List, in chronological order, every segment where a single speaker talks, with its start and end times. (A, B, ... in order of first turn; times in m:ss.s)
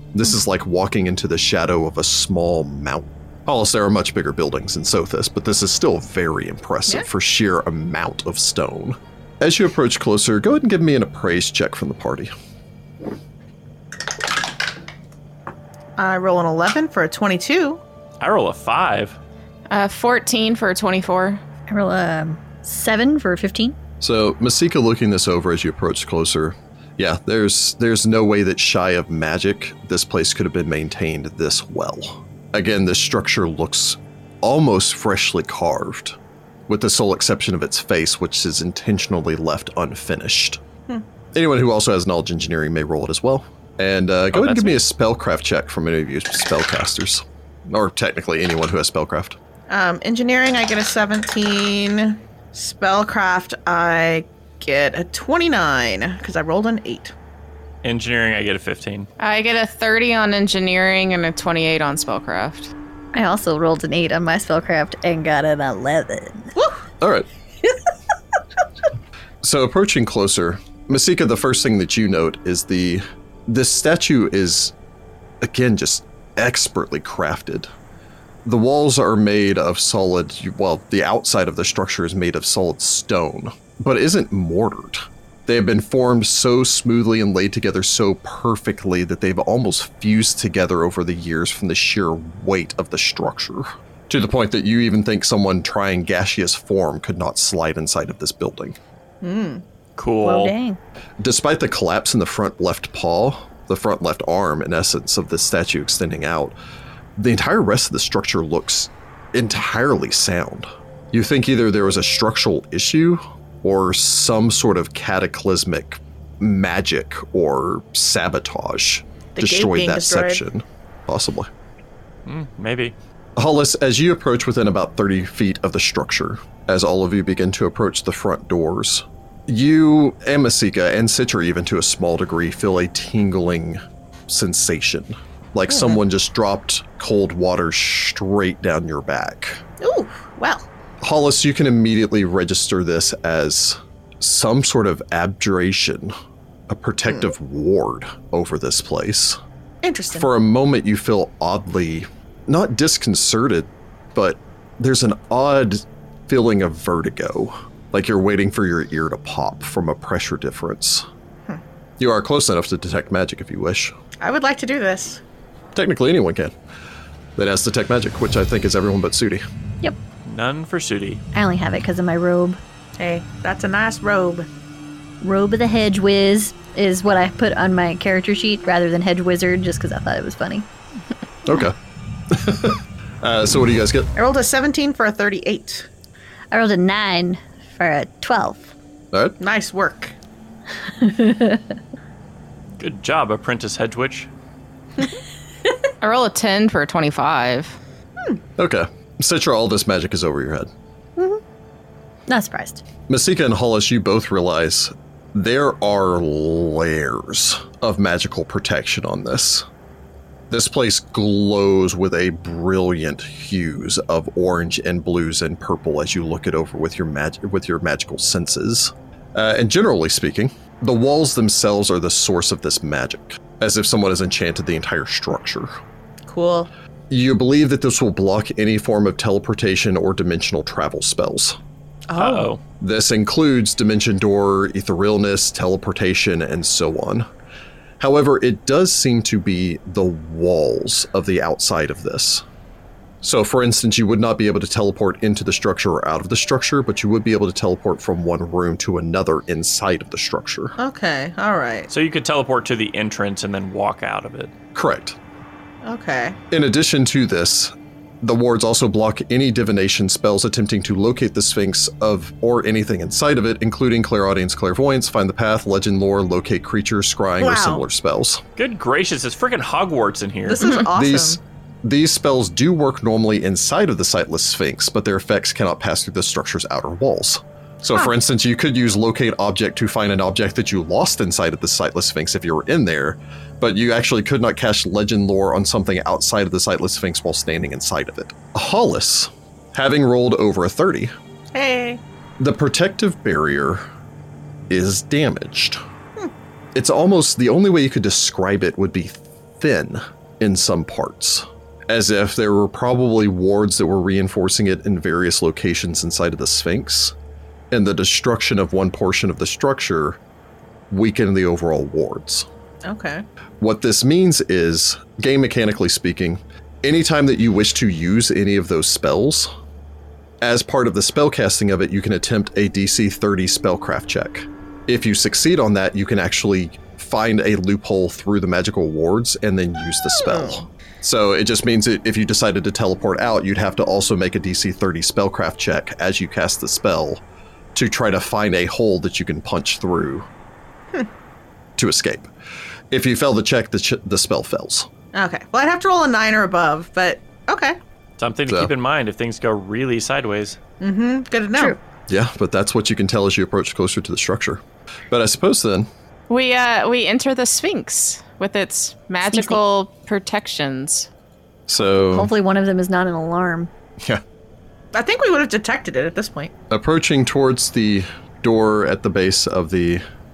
0:00.1-0:12.3 A
0:16.0-0:17.8 B
0:18.2-0:19.2 C
0:19.7-0:21.4 D
0:21.7-0:23.8 E
0:24.0-0:36.2 A
0:36.7-0:40.6 A
0:41.3-0:49.4 A
0:44.3-0:44.8 C
0:49.7-0:57.1 B
0:57.8-0:59.1 C
0:59.2-1:02.7 D
1:03.1-1:06.5 E
1:06.6-1:06.8 B
1:07.0-1:07.3 A
1:09.4-1:14.7 A
1:15.4-1:17.7 A
1:18.4-1:38.8 A
1:39.2-1:39.6 B
1:40.0-1:40.5 C
1:40.2-1:40.8 E
1:41.2-1:46.6 A
1:47.2-2:01.5 A
1:59.4-2:00.4 B
2:02.3-2:02.9 C
2:03.4-2:19.6 A
2:19.8-2:20.6 B
2:21.0-2:26.1 A
2:26.7-2:29.4 A
2:29.8-2:30.3 B
2:30.1-2:41.1 A
2:42.0-2:44.0 A
2:44.2-2:45.2 B
2:45.8-2:46.5 A
2:47.4-2:49.4 A
2:50.3-2:51.2 C
2:51.3-2:52.6 E
2:53.0-2:54.5 B
2:55.2-3:00.7 E
3:01.5-3:01.8 A
3:02.3-3:04.1 A
3:04.2-3:05.9 B
3:06.5-3:08.7 E
3:09.1-3:09.4 A
3:09.4-3:10.2 B
3:11.0-3:11.6 E
3:12.8-3:14.3 C
3:16.0-3:17.8 D
3:18.6-3:20.7 A
3:22.3-3:22.8 E
3:23.1-3:29.7 A
3:30.5-3:45.7 A
3:46.3-3:46.7 B
3:47.1-3:51.6 A
3:52.1-3:52.5 B
3:52.2-3:52.6 C
3:52.8-3:57.3 A
3:58.0-4:02.4 A
4:03.2-4:10.8 A
4:10.8-4:11.9 B
4:11.9-4:14.5 C
4:14.8-4:15.2 A
4:15.8-4:16.4 B
4:16.5-4:28.4 A
4:27.4-4:27.8 B
4:28.6-4:30.8 C
4:30.5-4:31.4 B
4:30.9-4:51.1 A
4:51.5-4:52.0 B
4:52.4-4:53.8 A
4:54.7-4:55.8 A
4:56.8-5:07.2 A
5:07.7-5:10.2 A
5:10.9-5:12.5 A
5:12.8-5:13.2 B
5:13.6-5:19.5 A
5:20.4-5:37.2 A
5:30.3-5:30.6 B
5:37.8-5:40.3 A
5:41.8-5:42.3 A
5:42.9-5:44.9 A
5:45.1-5:47.8 B
5:48.2-5:50.6 C
5:50.8-5:51.8 B
5:52.1-5:55.9 A
5:56.3-6:01.1 D
5:59.3-5:59.6 E
6:01.7-6:02.3 A
6:01.9-6:03.7 E
6:04.9-6:06.5 B
6:06.7-6:10.0 A